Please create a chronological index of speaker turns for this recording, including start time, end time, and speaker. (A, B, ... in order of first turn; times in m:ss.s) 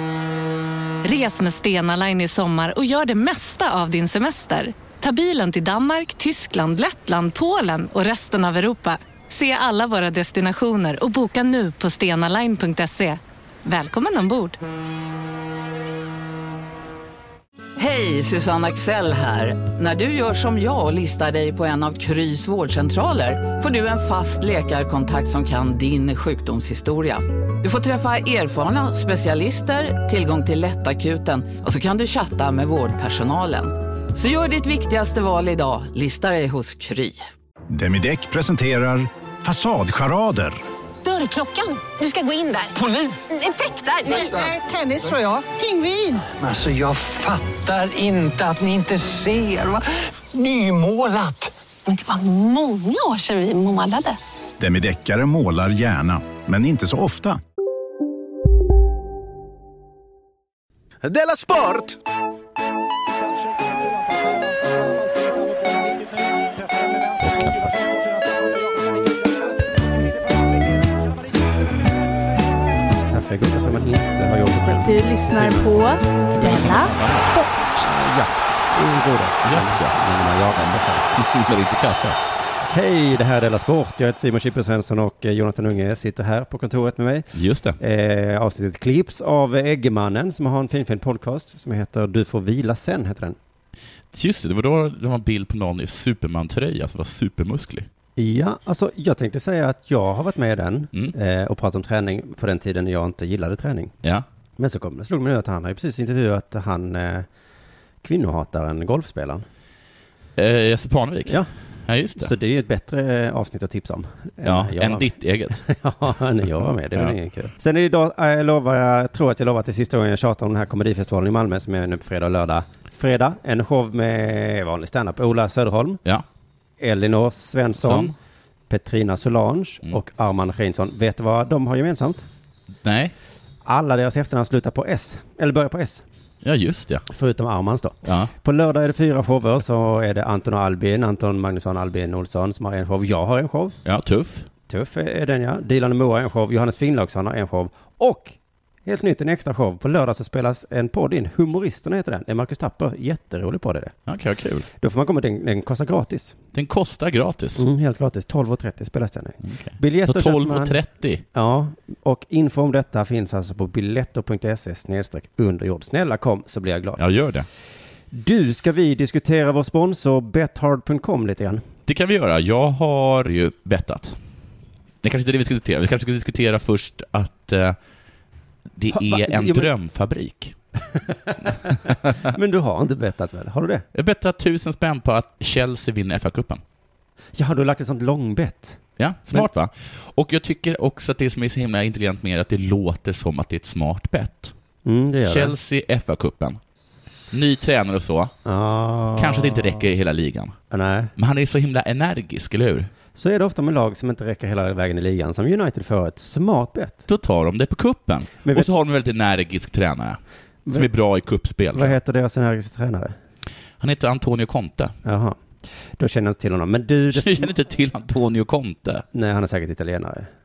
0:01.0-0:14.6 A
0:17.8-0:37.3 B
0:37.7-0:40.6 C
0:41.0-0:46.2 D
0:46.4-0:51.6 E
0:51.9-0:54.2 D
0:54.6-0:57.4 C
1:07.2-1:07.8 F
1:13.1-1:15.6 G
1:14.8-1:17.6 H
1:16.3-1:17.3 F
1:17.8-1:21.2 G
1:19.4-1:19.9 F
1:21.2-1:22.2 F
1:22.6-1:27.3 G
1:27.3-1:27.8 F
1:27.8-1:33.4 G
1:34.1-1:37.9 F
1:38.2-1:43.9 G
1:44.6-1:47.3 G
1:48.0-1:49.5 G
1:50.4-1:52.3 F
1:52.2-2:06.0 G
1:54.4-1:55.6 F
2:06.8-2:08.1 G
2:07.8-2:08.2 F
2:08.7-2:12.3 G
2:12.8-2:13.1 F
2:13.6-2:16.0 G
2:16.4-2:17.0 F
2:17.1-2:23.8 G
2:18.0-2:18.3 F
2:23.8-2:24.5 F
2:24.7-2:34.0 G
2:34.1-2:34.7 F
2:34.8-2:36.4 G
2:36.5-2:37.6 F
2:37.6-2:40.8 G
2:39.4-2:41.2 F
2:41.3-2:47.0 G
2:47.0-2:47.5 F
2:48.1-2:51.6 G
2:51.9-2:54.2 F
2:55.0-2:57.8 F
2:58.8-3:00.6 F
2:58.9-2:59.7 G
3:01.3-3:03.8 G
3:01.9-3:02.2 F
3:03.9-3:06.6 F
3:07.4-3:09.5 G
3:09.0-3:14.5 F
3:14.8-3:15.5 G
3:15.2-3:16.6 F
3:17.3-3:18.3 F
3:18.4-3:19.9 G
3:19.2-3:20.6 F
3:20.7-3:21.1 G
3:21.2-3:22.9 F
3:23.2-3:27.0 G
3:27.1-3:30.2 F
3:30.7-3:30.9 G
3:30.7-3:32.0 F
3:31.7-3:33.2 G
3:33.8-3:35.0 F
3:35.0-3:35.4 G
3:35.9-3:37.5 G
3:37.1-3:39.0 F
3:39.1-3:40.3 G